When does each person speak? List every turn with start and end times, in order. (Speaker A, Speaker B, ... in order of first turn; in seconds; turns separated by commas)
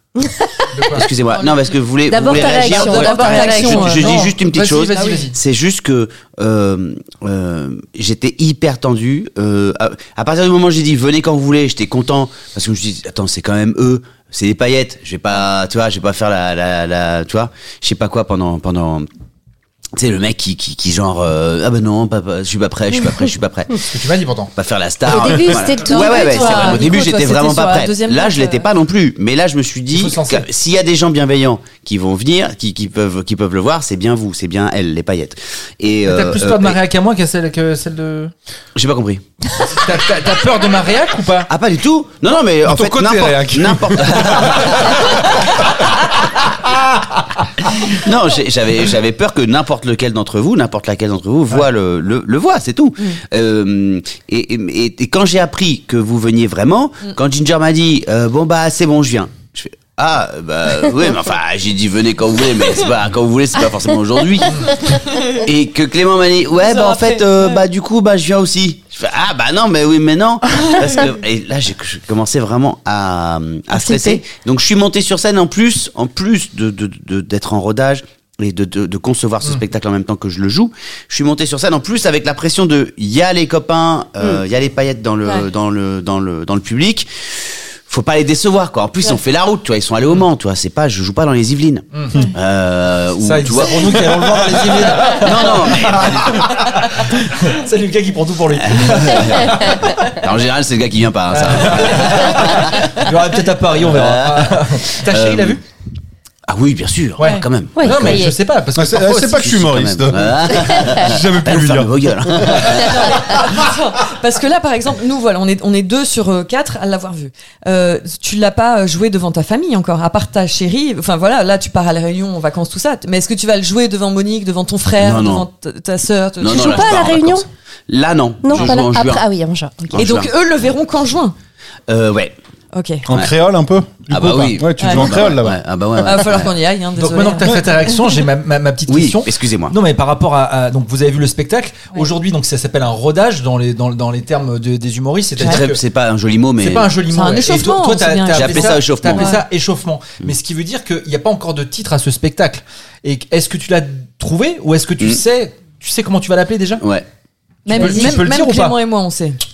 Speaker A: 0.2-0.7, Speaker B: 0.7-1.1, Speaker C: 0.9-19.1, Speaker D: 1.3-1.7, Speaker A: 2.1-4.2, Speaker D: 2.2-4.3, Speaker B: 3.8-5.3, Speaker D: 4.9-5.3, Speaker C: 19.9-23.8, Speaker B: 23.9-24.5, Speaker C: 24.6-36.8, Speaker A: 25.1-27.0, Speaker D: 25.8-28.7, Speaker B: 29.9-30.4, Speaker B: 36.0-38.3, Speaker C: 38.7-39.2, Speaker B: 39.7-41.5, Speaker C: 41.5-45.7, Speaker E: 42.6-45.5, Speaker C: 47.8-87.1, Speaker D: 64.9-65.4, Speaker D: 66.6-67.6, Speaker A: 73.7-74.2, Speaker C: 87.9-94.1, Speaker B: 91.9-92.2, Speaker B: 93.2-100.1, Speaker C: 95.0-96.5, Speaker C: 98.6-102.9, Speaker B: 101.3-105.6, Speaker C: 103.8-105.6, Speaker C: 106.5-108.2, Speaker B: 107.2-109.7, Speaker A: 107.8-108.3, Speaker E: 108.7-112.6, Speaker C: 109.4-113.2, Speaker D: 112.8-126.9, Speaker C: 125.0-125.5, Speaker C: 126.4-129.2, Speaker A: 126.5-127.5, Speaker A: 128.4-129.9, Speaker C: 129.9-130.3, Speaker D: 129.9-131.3, Speaker C: 131.9-132.3, Speaker D: 132.7-133.0, Speaker E: 133.1-135.6, Speaker C: 134.1-136.5, Speaker D: 134.8-135.1, Speaker D: 136.0-137.5, Speaker B: 137.0-145.8, Speaker C: 138.9-139.8, Speaker C: 145.4-146.9, Speaker B: 146.6-156.8, Speaker D: 147.1-149.4, Speaker C: 148.3-149.3, Speaker C: 156.8-157.1, Speaker D: 157.7-159.4, Speaker B: 157.7-158.8, Speaker A: 157.7-158.2